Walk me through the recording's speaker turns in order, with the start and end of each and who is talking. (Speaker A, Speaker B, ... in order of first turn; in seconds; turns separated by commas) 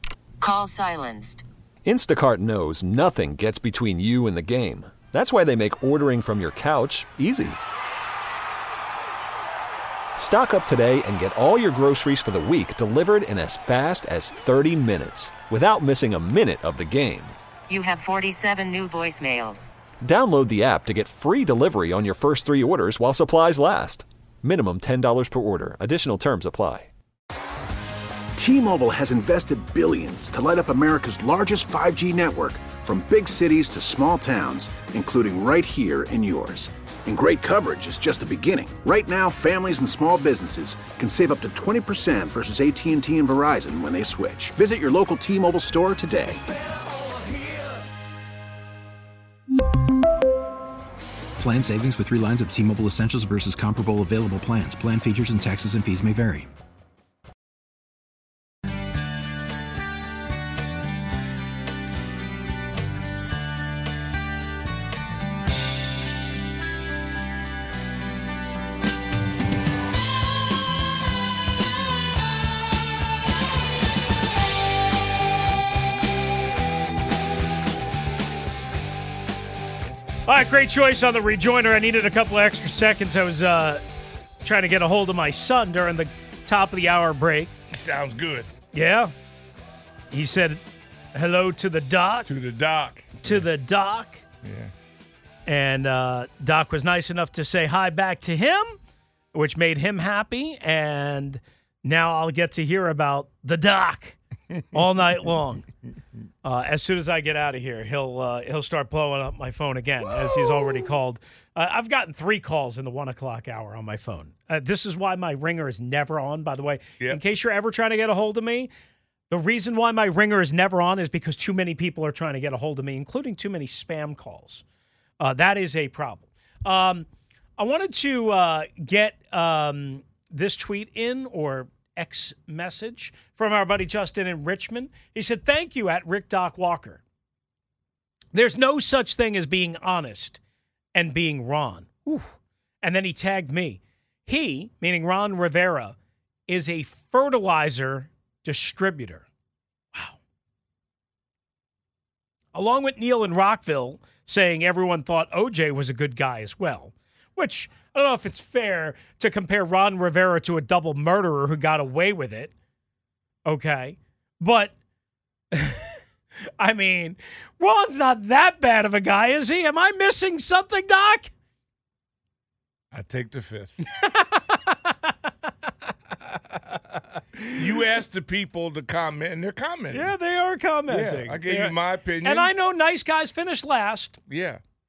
Speaker A: 0.4-1.4, Speaker B: 1.8-7.6, Speaker B: 10.2-17.4, Speaker A: 17.7-19.7, Speaker B: 20.0-26.9, Speaker C: 28.4-46.4, Speaker D: 51.4-56.5, Speaker E: 80.3-83.8, Speaker E: 84.4-87.5, Speaker F: 87.7-88.5, Speaker E: 88.7-89.1, Speaker E: 90.1-90.6, Speaker E: 91.1-92.3, Speaker F: 92.3-93.5, Speaker E: 93.2-94.2, Speaker F: 94.4-94.7, Speaker E: 95.5-98.8, Speaker E: 99.3-104.2, Speaker E: 104.7-105.7, Speaker E: 106.4-118.7, Speaker E: 119.3-124.6, Speaker E: 125.2-127.1, Speaker E: 127.6-137.0, Speaker E: 138.3-140.4, Speaker E: 140.9-146.0, Speaker E: 146.5-149.2, Speaker E: 152.5-162.5, Speaker E: 163.5-164.7, Speaker E: 165.5-166.0, Speaker E: 166.6-171.3, Speaker F: 172.9-173.8, Speaker E: 174.0-175.3, Speaker E: 176.3-176.8, Speaker E: 177.3-177.8, Speaker F: 177.6-180.1, Speaker E: 179.9-184.2, Speaker F: 180.9-182.5, Speaker F: 184.3-184.6